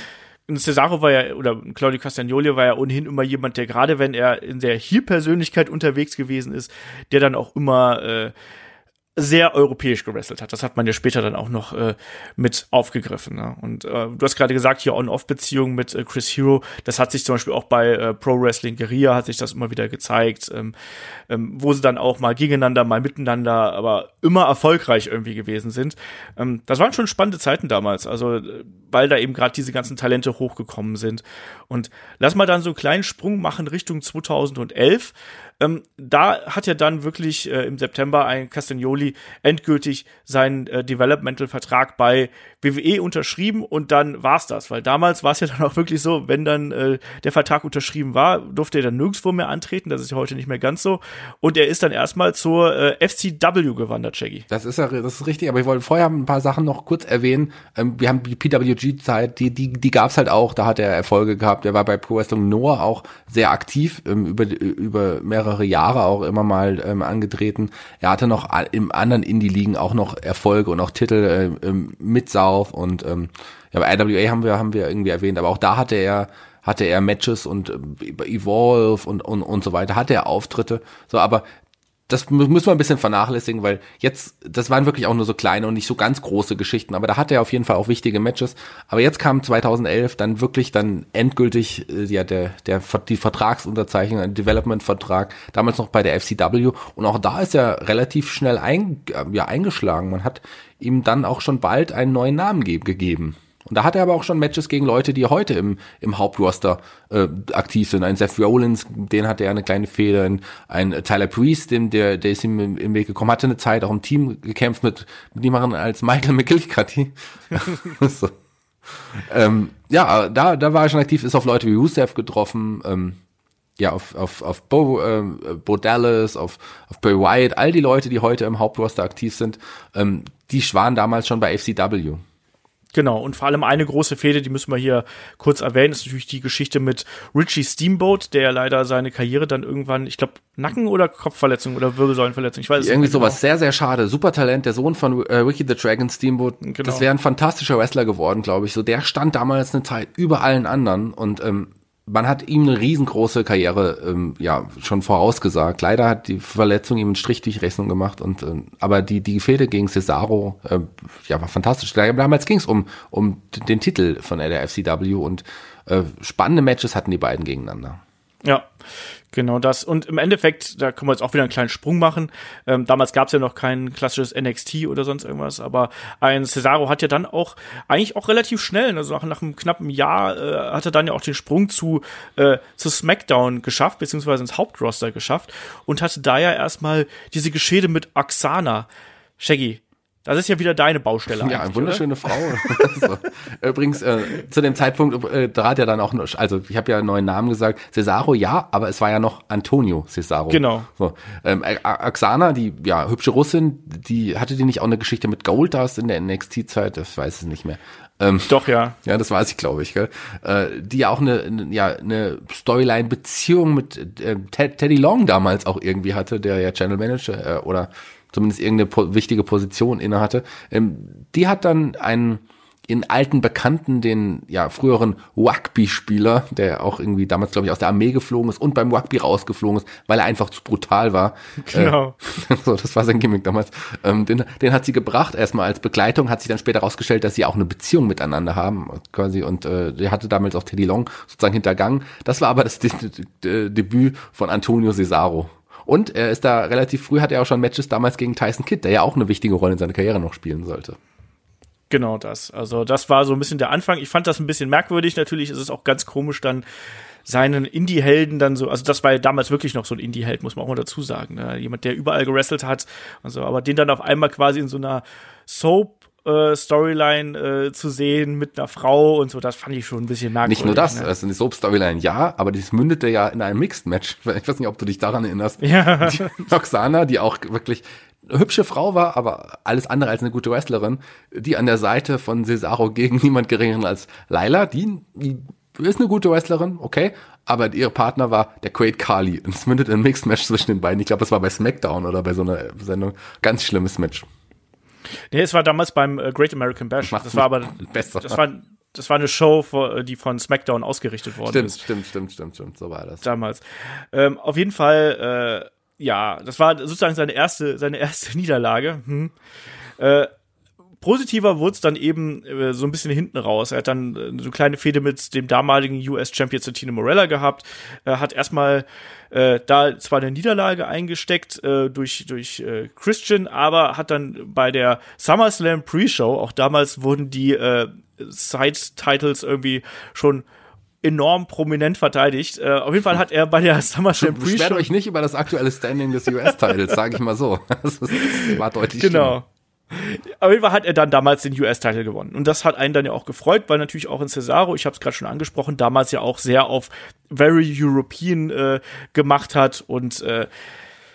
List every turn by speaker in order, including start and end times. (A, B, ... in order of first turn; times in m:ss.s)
0:00.5-0:08.3 A
0:09.2-0:20.7 A
0:21.3-0:54.4 A
0:54.5-1:21.5 B
1:22.1-1:58.3 B
1:58.8-2:03.2 B
2:03.8-2:12.2 B
2:12.9-2:23.4 A
2:22.8-2:48.0 B
2:26.6-2:27.0 A
2:48.4-2:48.7 A
2:49.3-3:08.9 A
3:09.4-3:12.8 A
3:11.4-4:11.0 B
3:20.5-3:20.9 A
3:28.5-3:29.0 A
3:51.6-3:52.1 A
4:11.9-4:16.6 A
4:17.2-4:31.1 A
4:30.4-4:54.3 B
4:35.6-4:36.5 A
4:55.3-5:01.8 A
4:57.0-4:58.4 B
5:01.4-5:03.2 B
5:03.2-5:09.3 A
5:10.0-5:10.3 A
5:11.0-5:30.4 A
5:31.0-5:34.9 A
5:34.2-5:39.4 B
5:38.2-5:50.5 A